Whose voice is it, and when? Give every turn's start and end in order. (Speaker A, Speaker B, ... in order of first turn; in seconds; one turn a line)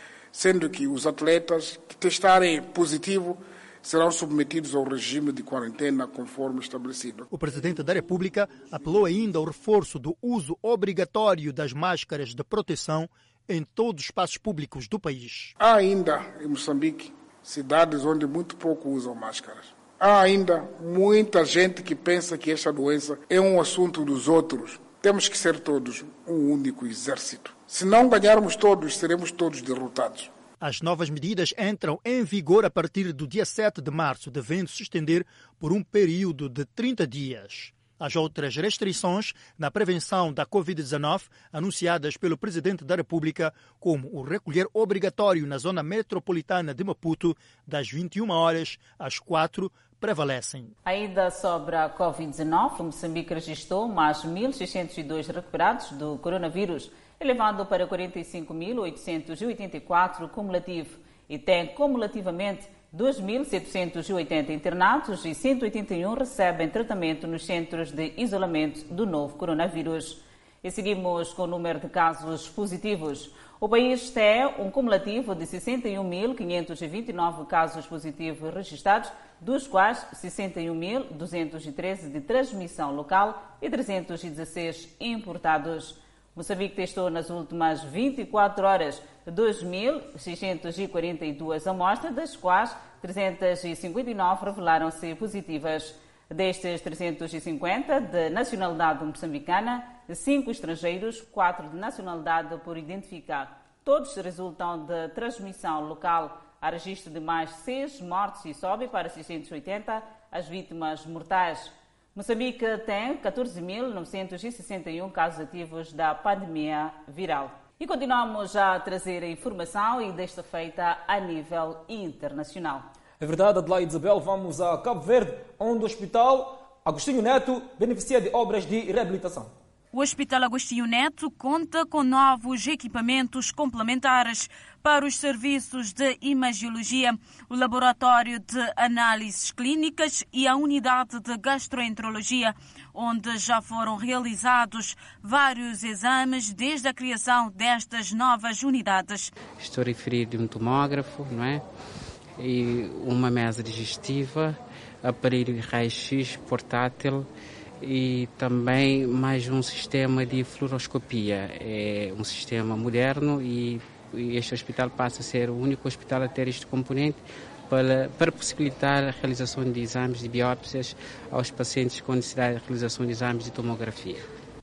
Speaker A: 0.3-7.3
Speaker B: 7.3-15.5
Speaker A: 15.6-30.3
Speaker B: 30.6-50.7
Speaker C: 50.9-122.8
Speaker D: 123.2-129.5
Speaker E: 129.9-149.3
Speaker F: 149.6-151.6
Speaker F: 152.4-157.3
Speaker F: 157.8-174.3